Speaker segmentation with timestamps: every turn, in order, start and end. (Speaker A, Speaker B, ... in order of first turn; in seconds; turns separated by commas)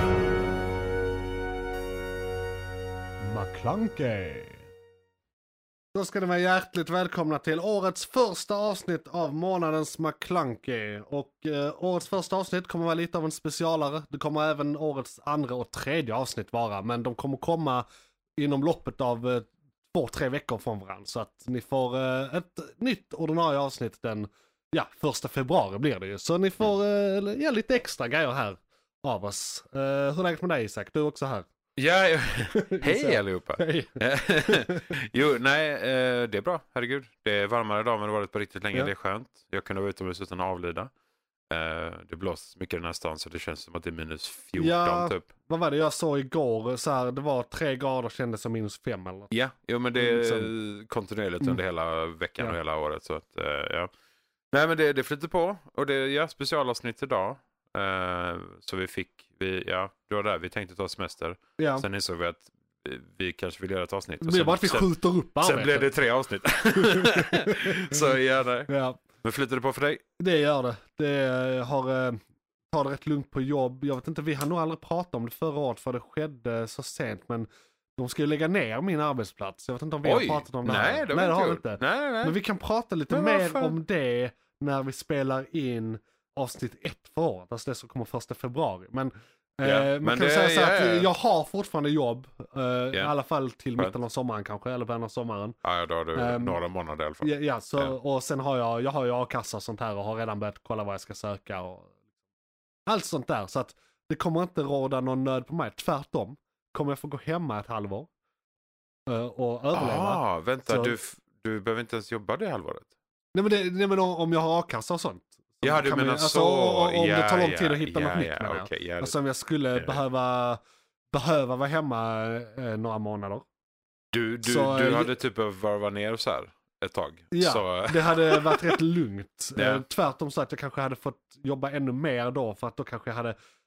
Speaker A: 3.2-4.7, Speaker A: 5.9-17.9, Speaker A: 18.4-31.5, Speaker B: 31.8-40.9, Speaker A: 32.5-35.0, Speaker B: 41.5-45.2, Speaker A: 44.5-49.3, Speaker B: 49.3-53.9, Speaker A: 50.0-50.5, Speaker B: 54.5-68.7, Speaker A: 61.6-61.9, Speaker A: 64.2-65.9, Speaker A: 66.7-68.0, Speaker A: 68.7-69.0, Speaker B: 69.2-70.0, Speaker A: 70.2-95.6, Speaker B: 80.0-82.3, Speaker B: 83.1-83.8, Speaker B: 89.6-91.1, Speaker B: 95.6-98.0, Speaker A: 96.1-96.6, Speaker A: 97.2-101.9, Speaker A: 102.9-108.1, Speaker A: 109.1-110.9, Speaker B: 109.7-112.9, Speaker A: 113.3-120.6, Speaker B: 115.6-119.2, Speaker B: 119.7-120.0, Speaker A: 121.1-123.5, Speaker B: 124.1-128.8, Speaker A: 124.4-125.1, Speaker A: 127.3-133.3, Speaker B: 129.6-129.8